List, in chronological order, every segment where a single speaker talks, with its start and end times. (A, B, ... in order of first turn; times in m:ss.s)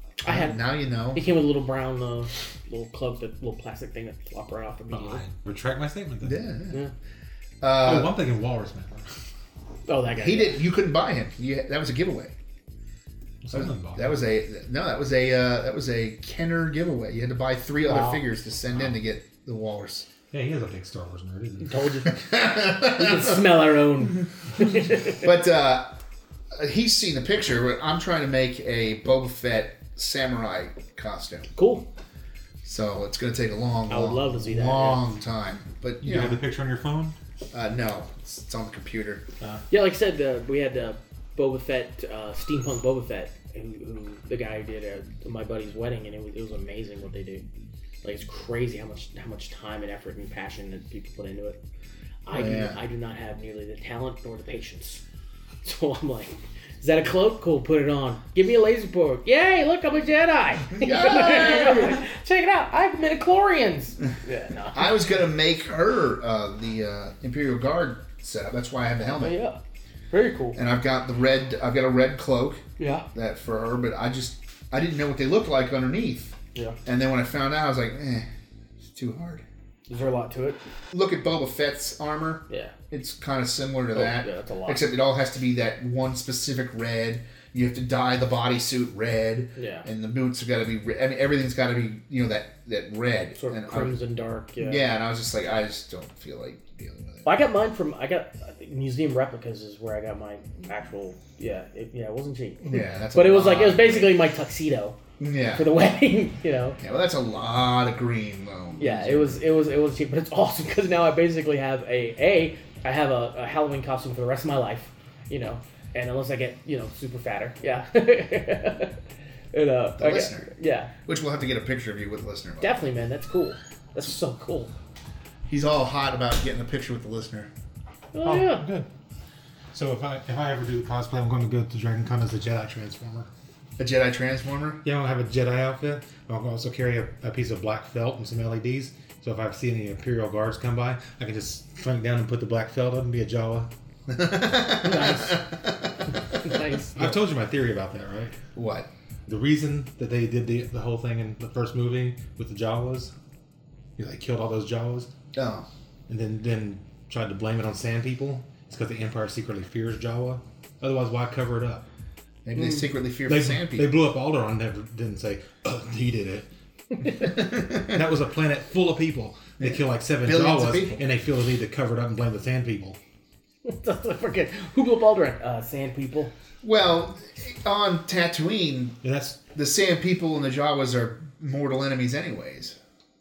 0:00.2-0:05.2 A
0:00.2-0:01.2 B
0:04.9-0:06.4 C
0:06.2-0:06.8 B
0:07.6-0:08.2 B
0:07.8-0:09.1 C
0:09.9-0:10.6 A
0:10.2-0:12.3 B
0:13.4-0:14.2 C
0:13.5-0:20.1 B
0:17.8-0:18.2 A
0:20.3-0:21.8 C
0:21.6-0:25.3 A
0:22.2-0:23.4 B
0:25.2-0:26.0 B
0:26.6-0:31.5 B
0:31.6-0:31.9 A
0:32.6-0:36.4 B
0:33.9-0:35.1 A
0:36.0-0:37.2 C
0:37.5-0:39.2 B
0:39.7-0:47.4 A
0:48.0-0:51.6 A
0:52.3-0:55.0 A
0:52.3-0:52.8 B
0:55.6-1:04.9 A
1:00.8-1:02.0 B
1:04.7-1:09.4 B
1:09.1-1:09.6 A
1:10.1-1:10.6 A
1:10.6-1:12.6 B
1:12.8-1:13.1 A
1:13.1-1:18.3 B
1:18.8-1:19.4 B
1:19.9-1:20.6 A
1:20.9-1:34.0 B
1:23.9-1:24.8 A
1:29.6-1:29.9 A
1:33.4-1:34.9 A
1:34.6-1:37.3 B
1:37.2-1:45.0 A
1:42.6-1:44.2 B
1:45.2-1:45.7 B
1:45.5-1:46.8 A
1:46.8-1:49.4 B
1:48.8-1:59.0 A
1:59.5-2:00.9 A
2:00.0-2:00.5 B
2:01.0-2:02.8 B
2:02.6-2:04.7 A
2:05.5-2:07.5 B
2:08.1-2:08.7 A
2:08.2-2:08.9 C
2:09.7-2:13.3 C
2:13.8-2:14.8 B
2:14.8-2:23.7 C
2:24.1-2:26.0 B
2:24.8-2:25.4 A
2:26.4-2:27.0 A
2:27.0-2:28.4 C
2:28.6-2:28.9 B
2:29.3-2:33.1 C
2:34.0-2:35.1 C
2:35.3-2:35.7 B
2:36.1-2:41.8 C
2:42.4-2:43.9 B
2:43.3-2:46.5 C
2:47.2-2:48.0 B
2:47.8-2:53.0 C
2:49.6-2:51.0 B
2:53.6-2:56.3 A
2:56.6-2:59.0 B
2:59.0-2:59.4 C
2:59.5-3:02.8 B